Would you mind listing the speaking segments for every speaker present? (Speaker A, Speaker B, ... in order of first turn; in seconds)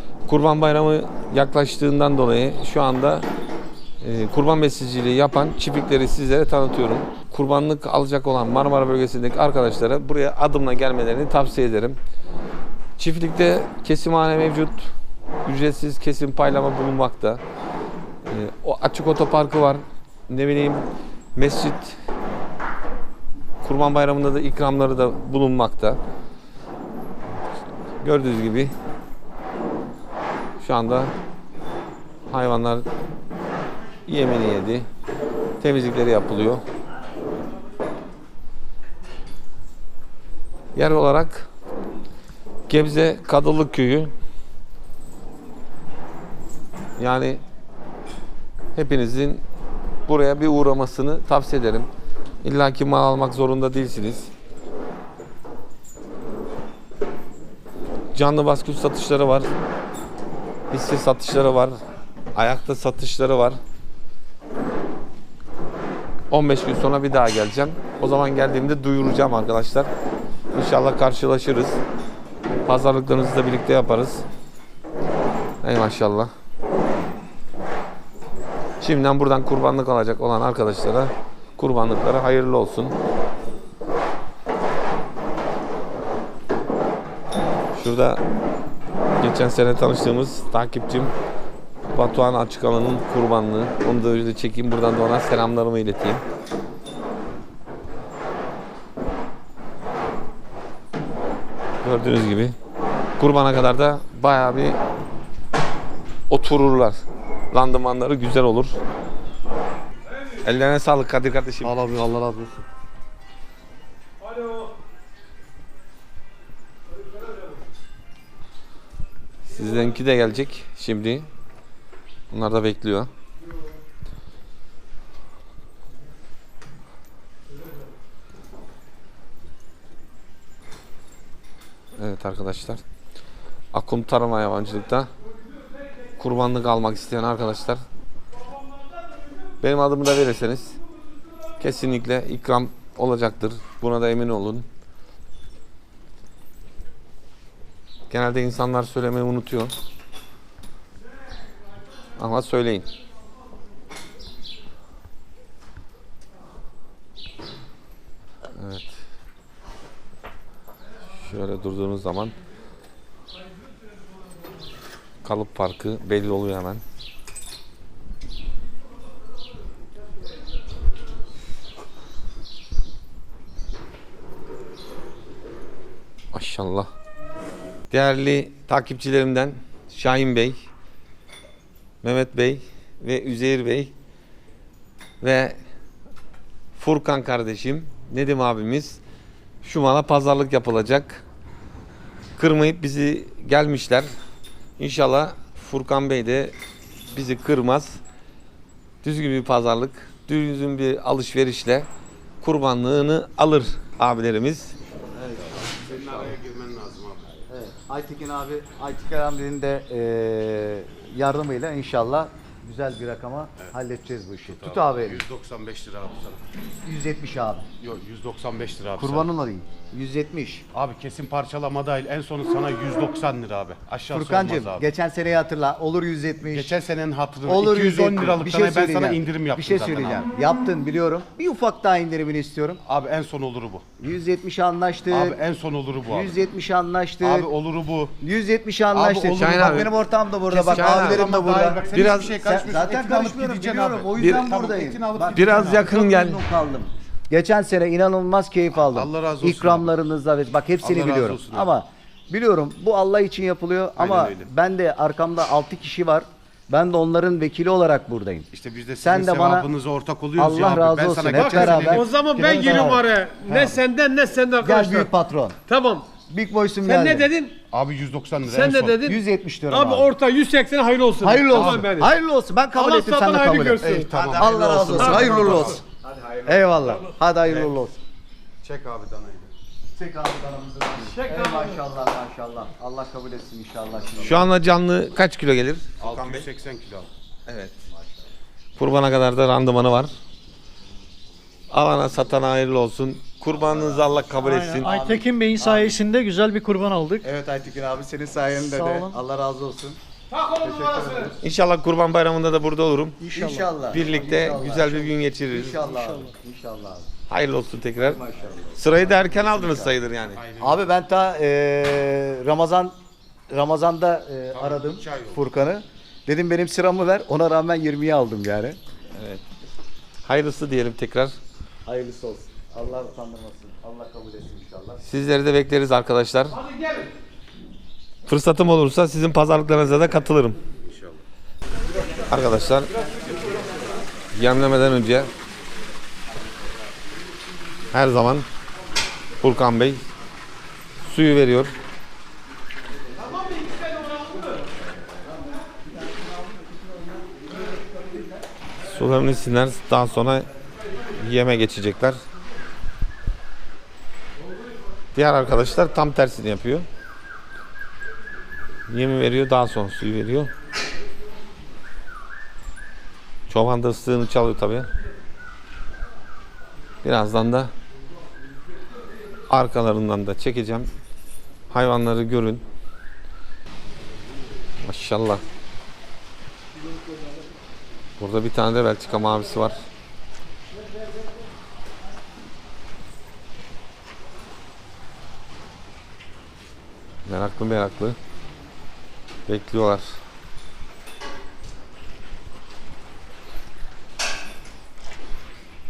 Speaker A: 0.3-3.3, 4.0-12.0, 13.0-14.9, 15.4-17.4, 18.2-22.0, 23.6-26.0, 28.0-28.7, 30.6-31.1, 32.3-32.9, 34.1-34.9, 35.6-36.6, 40.8-41.5, 42.7-44.1, 47.0-47.4, 48.8-49.4, 50.1-51.9, 52.4-54.3, 58.1-59.5, 60.7-61.8, 62.4-63.6, 66.3-69.9, 70.5-71.8, 72.7-74.2, 75.6-76.3, 78.8-83.0, 87.7-88.2, 89.2-91.1, 91.9-96.2, 101.8-102.6, 103.2-104.8, 106.3-107.0, 107.5-108.8, 110.4-111.8, 119.5-121.3, 122.3-123.1, 132.0-132.8, 133.7-135.1, 136.2-137.8, 139.6-140.8, 141.6-144.7, 148.1-149.7, 152.2-152.9, 158.6-158.9, 161.2-162.3, 165.2-166.8, 176.3-176.9, 177.9-180.6, 182.0-183.9, 185.2-185.6, 186.8-189.0, 189.6-191.2, 192.4-194.1, 194.8-196.6, 197.1-198.0, 199.0-201.9, 202.4-204.7, 239.3-239.9, 240.5-242.4, 244.2-244.5, 245.3-246.4, 274.1-275.8, 284.2-286.5, 287.5-287.8, 288.8-290.1, 291.7-294.9, 301.4-303.2, 303.9-305.8, 307.3-308.2, 308.8-310.4, 319.1-319.4, 320.2-321.4, 325.0-326.6, 328.3-330.6, 332.3-332.9, 334.3-335.3, 337.9-338.5, 339.4-340.0, 341.0-341.8, 348.9-350.5, 351.2-352.2, 355.1-356.9, 358.9-360.5, 363.5-364.9, 367.0-367.7, 369.5-370.9, 371.7-372.6, 374.8-375.4, 378.2-379.8, 387.3-388.2, 389.5-390.1
Speaker B: 111.6-112.6, 205.2-206.3, 207.5-215.2, 216.8-217.7, 219.0-220.7, 224.1-226.8, 227.4-232.8, 234.0-235.4, 236.1-237.5, 238.2-258.5, 259.0-259.7, 260.4-263.8, 264.6-265.6, 266.3-267.3, 269.0-270.1, 271.2-278.0, 279.9-284.5, 294.9-296.0, 297.2-301.4, 303.3-307.1, 308.0-310.0, 310.6-312.9, 313.5-318.8, 321.9-325.0
Speaker C: 205.5-207.4, 214.5-216.4, 217.8-219.3, 220.7-224.9, 226.5-230.3, 232.9-233.8, 235.1-236.4, 237.2-238.2, 238.9-239.9, 240.5-246.0, 248.8-249.9, 250.8-251.7, 254.0-254.5, 258.5-263.1, 267.7-269.1, 273.8-275.8, 278.6-279.5, 286.0-287.1, 310.3-310.9, 314.5-315.4, 330.9-331.2
Speaker D: 261.4-265.1, 265.7-266.1, 266.9-267.6, 268.5-272.1, 272.7-274.2, 275.0-275.3, 281.1-281.8
Speaker E: 294.4-297.3, 298.6-299.2, 303.2-303.7, 305.8-306.3